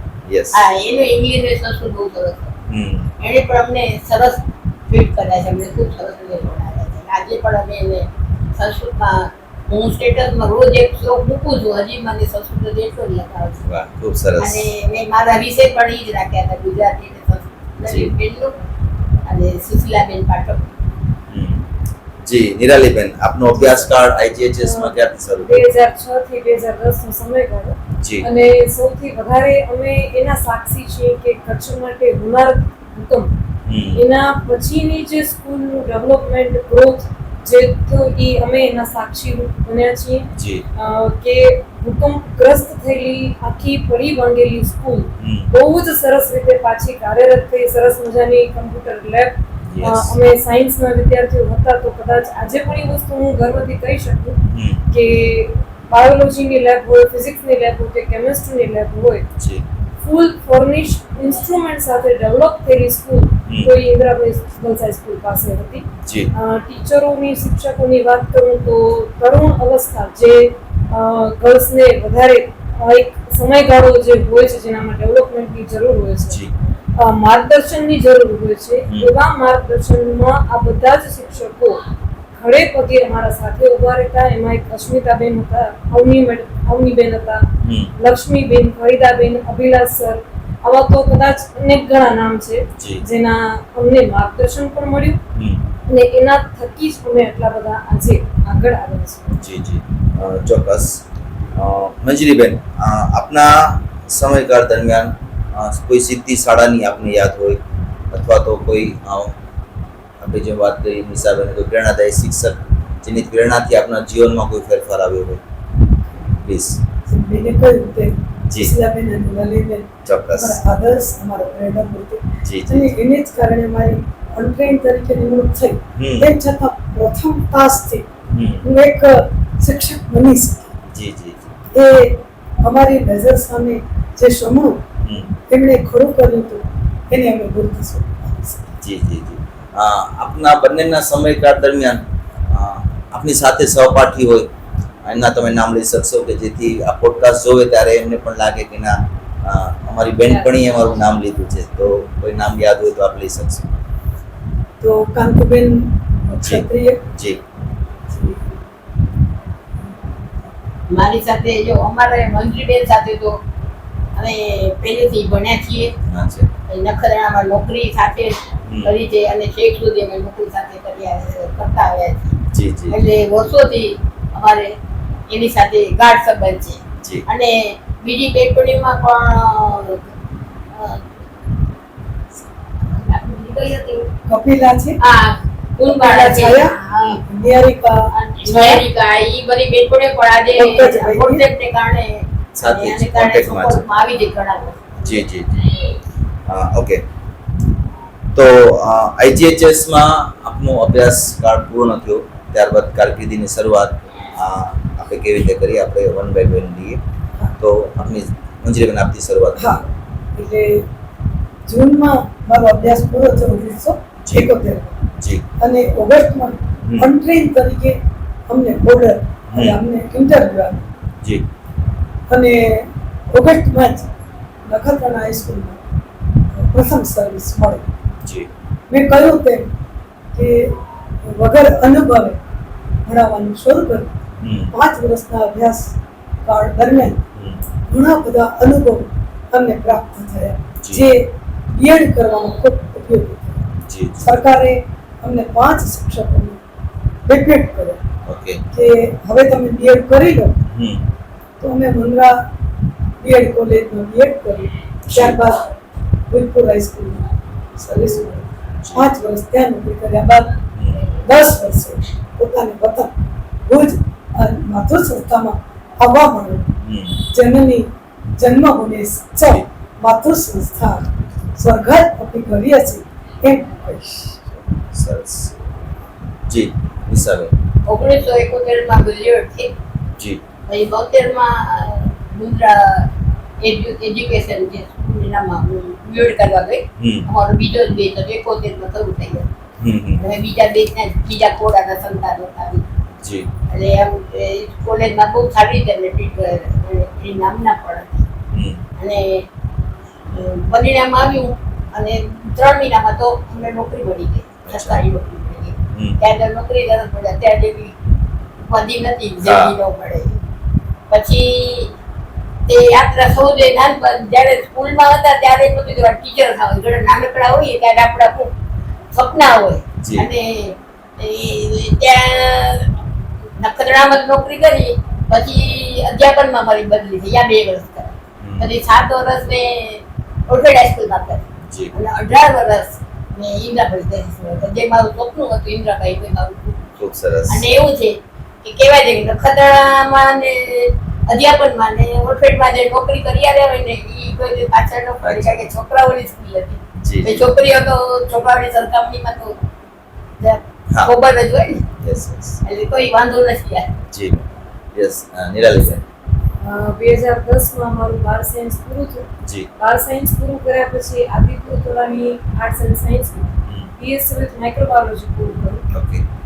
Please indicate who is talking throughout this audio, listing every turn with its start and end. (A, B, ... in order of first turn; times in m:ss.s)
0:00.2-0:00.6 A
0:00.5-0:02.5 B
0:02.7-0:03.1 A
0:03.2-0:13.7 B
0:13.6-0:14.7 A
0:14.4-0:18.6 B
0:17.8-0:18.1 A
0:19.2-0:20.8 B
0:21.3-0:21.7 A
0:22.2-0:25.6 A
0:24.6-0:33.3 C
0:28.0-0:28.3 A
0:33.6-0:34.0 A
0:33.9-0:59.2 C
0:40.3-0:40.6 A
0:45.2-0:45.5 A
0:49.7-0:50.1 A
0:54.5-0:54.8 A
0:59.4-0:59.6 A
1:00.0-1:16.4 C
1:03.5-1:03.7 A
1:06.0-1:06.3 A
1:17.0-1:21.8 C
1:22.4-1:35.2 C
1:27.6-1:27.9 A
1:32.8-1:33.0 A
1:35.3-1:35.6 A
1:35.9-1:39.4 C
1:39.4-1:41.0 A
1:41.5-1:49.4 A
1:50.2-1:55.4 A
1:56.3-1:56.8 A
1:57.1-2:08.1 D
1:58.5-1:58.7 A
2:00.0-2:00.6 A
2:02.4-2:02.9 A
2:05.9-2:06.3 A
2:08.3-2:08.6 A
2:08.6-2:10.7 D
2:10.9-2:11.7 A
2:11.7-2:14.8 D
2:15.0-2:15.3 A
2:15.5-2:18.6 D
2:18.8-2:24.5 A
2:25.0-2:33.6 A
2:34.8-2:37.0 D
2:36.4-2:37.4 A
2:38.1-2:38.6 D
2:40.9-2:43.4 B
2:44.1-2:45.9 B
2:46.1-2:46.5 A
2:46.7-2:52.4 B
2:48.6-2:48.9 A
2:52.5-2:53.0 A
2:52.9-2:54.7 B
2:55.3-3:00.0 B
2:57.0-2:57.2 A
3:00.7-3:01.1 B
3:02.9-3:04.1 B
3:04.3-3:05.0 D
3:05.0-3:07.1 B
3:05.8-3:08.8 D
3:06.9-3:07.2 A
3:08.1-3:15.2 B
3:10.5-3:11.4 D
3:12.6-3:13.8 A
3:15.0-3:15.6 A
3:16.5-3:17.0 A
3:18.3-3:27.0 A
3:27.6-3:29.8 A
3:29.6-3:29.8 D
3:30.4-3:30.9 D
3:31.7-3:35.0 D
3:34.2-3:34.5 A
3:35.2-3:35.4 A
3:35.6-3:40.9 D
3:36.8-3:37.1 A
3:39.5-3:39.8 A
3:42.3-3:44.1 D
3:44.6-3:45.8 D
3:46.5-3:47.9 D
3:48.2-3:48.5 A
3:48.9-3:49.7 D
3:50.3-3:52.4 D
3:53.0-3:54.2 D
3:54.4-3:54.7 A
3:54.7-3:57.2 D
3:57.4-3:57.6 A
3:57.9-4:03.6 D
4:00.8-4:01.1 A
4:03.8-4:04.4 A
4:04.2-4:06.6 D
4:07.3-4:08.0 D
4:08.2-4:08.6 A
4:08.7-4:10.6 D
4:10.6-4:11.0 A
4:11.6-4:12.4 D
4:13.2-4:15.7 D
4:15.0-4:15.4 A
4:16.3-4:20.6 D
4:18.8-4:19.1 A
4:20.8-4:21.1 A
4:21.2-4:23.1 D
4:23.6-4:26.7 D
4:26.8-4:27.2 A
4:27.3-4:34.4 D
4:34.8-4:35.6 A
4:36.5-4:37.5 A
4:37.8-4:39.8 B
4:40.7-4:49.5 B
4:47.0-4:47.3 A
4:49.8-4:50.2 A
4:50.2-4:52.8 B
4:53.2-4:53.5 A
4:53.7-4:58.3 B
4:58.5-4:58.8 A
4:59.0-4:59.5 B
5:00.3-5:08.0 B
5:04.7-5:05.0 A
5:05.9-5:06.2 A
5:08.6-5:10.4 B
5:09.4-5:09.7 A
5:11.1-5:11.9 B
5:12.7-5:18.5 B
5:19.1-5:22.9 B
5:20.0-5:20.3 A
5:23.6-5:36.9 B
5:28.4-5:28.7 A
5:31.7-5:31.9 A
5:37.0-5:37.7 A
5:37.5-5:49.6 B
5:45.2-5:45.7 A
5:47.0-5:47.5 A
5:50.4-5:51.9 B
5:51.9-5:52.6 A
5:52.6-5:53.9 B
5:54.1-5:56.0 A
5:56.6-6:05.8 C
6:03.6-6:03.9 A
6:05.9-6:06.2 A